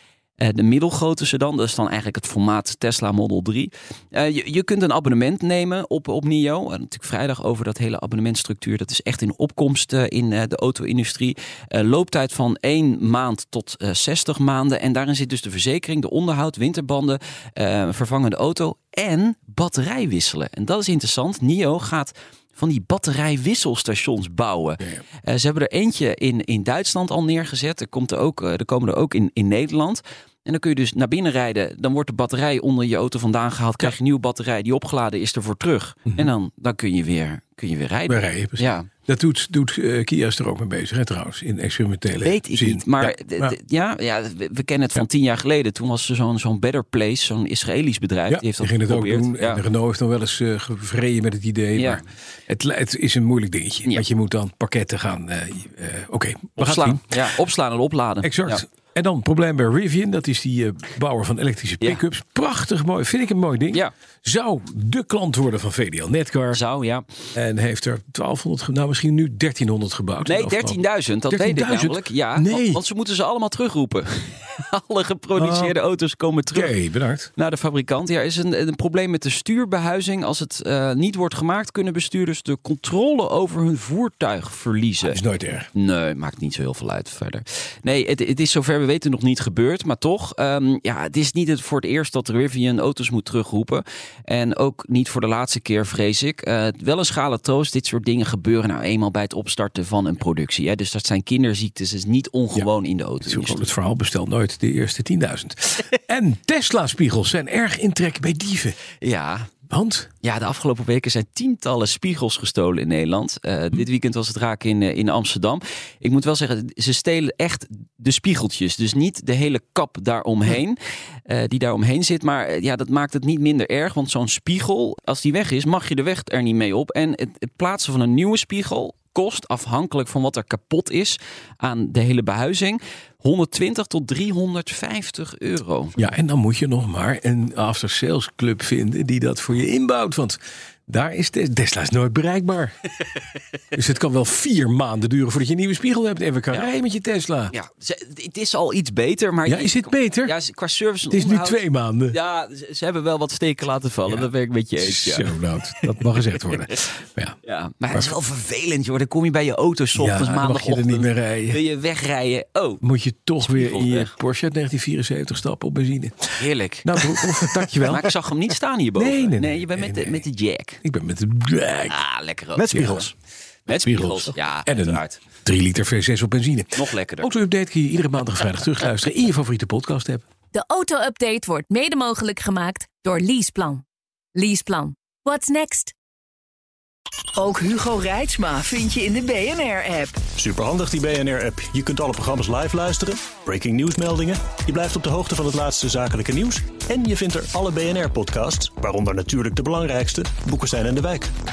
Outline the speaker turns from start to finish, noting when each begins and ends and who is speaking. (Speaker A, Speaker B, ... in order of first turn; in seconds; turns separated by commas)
Speaker A: 0.4-38.9, Speaker B: 38.1-43.5, Speaker A: 42.2-49.6, Speaker B: 48.3-57.4, Speaker A: 51.8-52.0, Speaker A: 56.6-58.6, Speaker B: 58.2-66.6, Speaker A: 66.5-67.0, Speaker B: 67.3-72.8, Speaker A: 70.2-76.7, Speaker B: 75.3-75.8, Speaker B: 76.5-77.3, Speaker A: 77.3-85.2, Speaker B: 85.0-85.7, Speaker A: 85.7-103.7, Speaker B: 103.2-108.8, Speaker A: 109.0-109.5, Speaker B: 109.7-110.1, Speaker A: 110.2-135.9, Speaker B: 136.0-142.7, Speaker B: 143.7-147.5, Speaker A: 147.5-156.1, Speaker B: 149.4-150.3, Speaker B: 151.1-152.2, Speaker B: 154.1-157.4, Speaker A: 157.4-162.8, Speaker B: 159.9-161.6, Speaker B: 162.8-168.1, Speaker A: 163.4-164.1, Speaker A: 166.4-170.8, Speaker B: 169.0-170.2, Speaker B: 170.8-172.0, Speaker A: 171.9-173.1, Speaker B: 172.6-173.1, Speaker A: 173.7-175.2, Speaker B: 173.8-180.2, Speaker A: 176.7-177.3, Speaker C: 180.5-183.8, Speaker C: 184.3-185.9, Speaker D: 187.3-190.2, Speaker E: 190.4-201.3